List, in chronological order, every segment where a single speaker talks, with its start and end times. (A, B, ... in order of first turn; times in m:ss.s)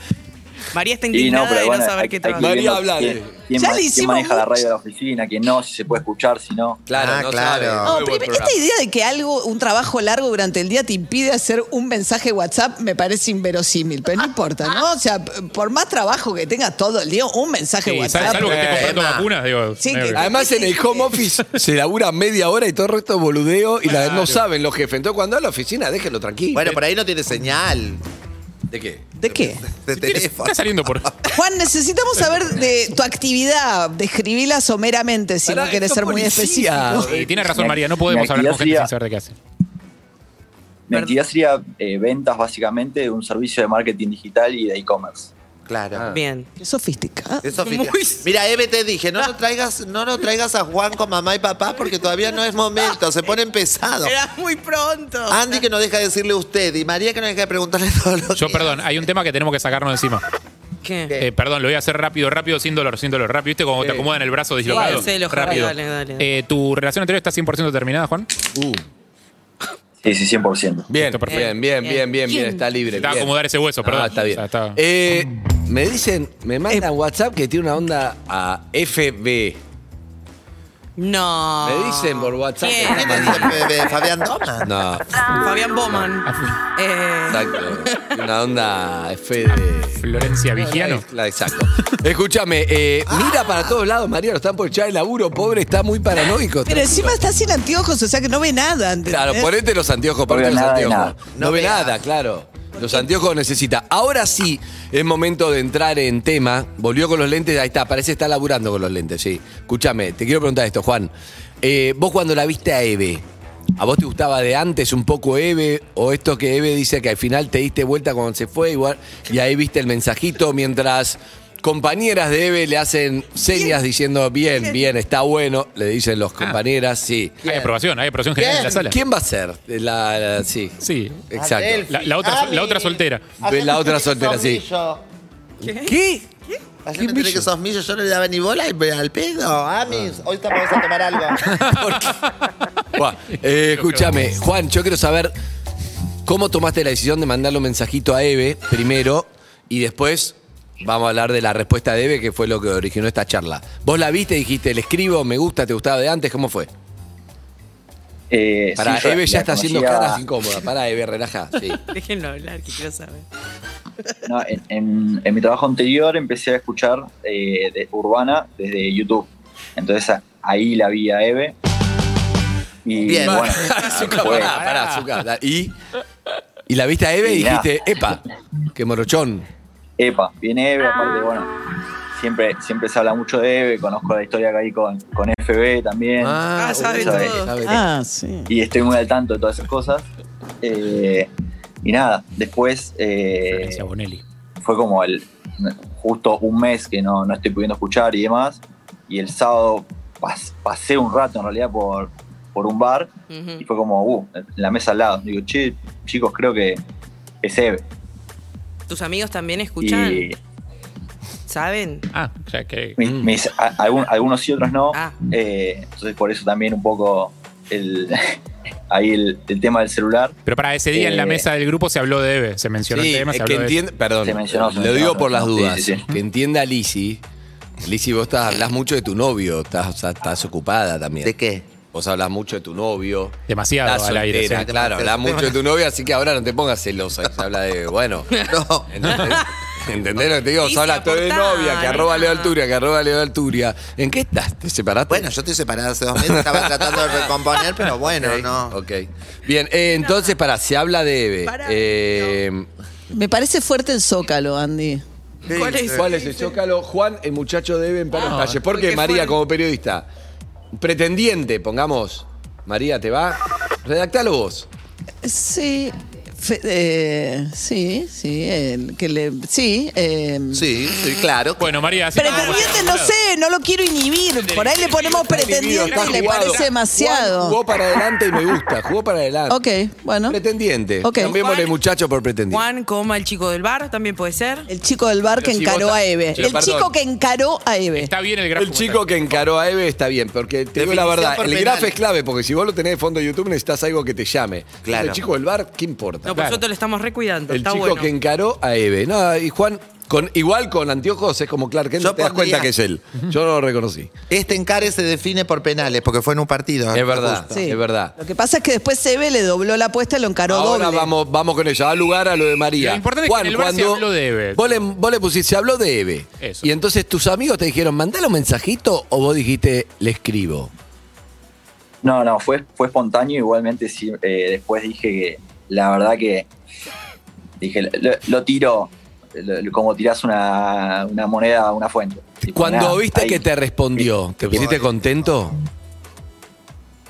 0:00.7-0:02.5 A
0:01.1-0:06.8 B
0:02.4-0:03.4 C
0:03.6-0:04.5 D
0:06.9-0:08.6 C
0:06.9-0:08.0 E
0:07.8-0:18.7 D
0:17.8-0:20.3 F
0:18.3-0:18.9 C
0:18.4-0:19.3 E
0:19.8-0:20.8 D
0:20.1-0:26.8 C
0:24.0-0:24.4 F
0:26.5-0:28.0 E
0:28.7-0:29.2 C
0:29.2-0:29.6 D
0:29.4-0:31.1 E
0:30.0-0:31.1 F
0:31.3-0:37.1 D
0:35.4-0:37.8 C
0:37.0-0:39.3 F
0:37.5-0:38.9 B
0:40.9-0:45.3 B
0:40.9-0:41.2 A
0:45.7-0:46.0 E
0:46.1-0:46.5 A
0:46.6-0:47.4 D
0:47.4-0:54.1 E
0:47.6-0:48.2 A
0:54.0-0:55.6 A
0:55.3-0:58.9 E
0:58.4-1:00.2 F
1:00.8-1:01.2 A
1:01.2-1:08.3 F
1:03.8-1:04.1 C
1:04.6-1:06.2 A
1:04.7-1:05.6 C
1:08.5-1:08.8 C
1:10.0-1:10.9 B
1:10.9-1:19.6 C
1:11.0-1:11.5 F
1:11.3-1:12.6 A
1:12.9-1:14.8 F
1:21.0-1:24.0 A
1:21.6-1:23.7 C
1:22.9-1:24.7 E
1:24.6-1:25.1 C
1:25.2-1:28.1 A
1:26.2-1:26.6 F
1:27.3-1:37.2 C
1:30.0-1:31.0 F
1:33.1-1:33.8 E
1:36.6-1:39.5 D
1:39.1-1:51.1 C
1:40.3-1:41.2 B
1:41.3-1:42.0 E
1:51.6-1:53.2 C
1:53.8-2:07.5 C
2:03.5-2:03.8 A
2:04.6-2:04.9 A
2:07.4-2:09.0 F
2:07.4-2:07.7 E
2:08.3-2:08.9 E
2:08.8-2:11.9 C
2:10.8-2:11.2 F
2:11.3-2:15.0 E
2:11.9-2:13.4 F
2:13.4-2:14.6 C
2:15.6-2:16.0 A
2:15.6-2:16.3 C
2:16.8-2:21.5 E
2:17.0-2:17.5 C
2:21.5-2:22.1 F
2:21.6-2:22.2 C
2:23.0-2:25.3 C
2:23.3-2:24.2 F
2:26.2-2:36.7 C
2:38.3-2:40.2 B
2:38.8-2:41.8 C
2:41.9-2:43.2 A
2:44.2-2:51.5 B
2:52.8-2:54.6 B
2:53.0-2:53.7 E
2:53.2-2:55.7 C
2:54.4-2:55.1 F
2:56.7-2:58.2 C
2:57.2-2:57.7 B
2:58.8-2:59.4 C
3:00.0-3:01.5 B
3:02.1-3:07.4 B
3:06.2-3:07.9 C
3:06.6-3:07.5 A
3:07.6-3:08.5 D
3:08.5-3:10.0 B
3:10.6-3:11.3 B
3:11.8-3:13.8 B
3:13.5-3:14.2 F
3:14.6-3:26.8 B
3:23.3-3:23.6 A
3:27.4-3:27.8 B
3:28.9-3:30.3 A
3:29.8-3:30.4 B
3:31.5-3:32.1 A
3:32.1-3:33.0 F
3:33.0-3:38.4 B
3:33.0-3:33.3 C
3:38.9-3:40.4 B
3:40.4-3:43.8 F
3:40.9-3:41.4 B
3:42.9-3:47.2 C
3:44.2-3:46.1 B
3:47.8-3:51.3 C
3:51.2-3:51.7 E
3:51.9-4:05.3 C
3:53.5-3:54.7 F
3:54.5-3:55.6 E
3:58.4-3:59.1 E
4:00.6-4:02.5 A
4:05.1-4:08.8 E
4:06.2-4:07.3 C
4:07.9-4:12.7 C
4:10.0-4:10.4 A
4:11.4-4:12.4 A
4:13.1-4:15.0 D
4:15.4-4:16.5 A
4:15.5-4:16.1 E
4:15.9-4:20.1 C
4:18.1-4:19.4 A
4:20.7-4:24.7 C
4:25.2-4:30.7 D
4:30.5-4:31.8 E
4:31.6-4:33.1 F
4:32.1-4:37.6 D
4:34.8-4:39.6 C
4:35.8-4:36.6 F
4:39.5-4:40.4 D
4:40.3-4:42.6 C
4:41.0-4:41.3 D
4:41.2-4:41.7 A
4:42.5-4:44.7 A
4:44.7-4:48.1 D
4:45.4-4:46.9 C
4:48.0-4:49.4 F
4:48.5-4:56.5 C
4:50.8-4:52.0 E
4:54.8-4:55.2 E
4:56.2-4:58.1 A
4:56.3-4:56.6 F
4:57.5-5:04.1 C
5:02.0-5:02.7 E
5:04.3-5:07.6 E
5:06.9-5:08.1 C
5:07.5-5:11.1 D
5:10.5-5:20.7 C
5:12.8-5:14.8 F
5:16.4-5:16.7 F
5:22.0-5:26.5 B
5:27.6-5:33.4 B
5:32.5-5:35.5 C
5:34.0-5:34.8 B
5:34.5-5:35.2 E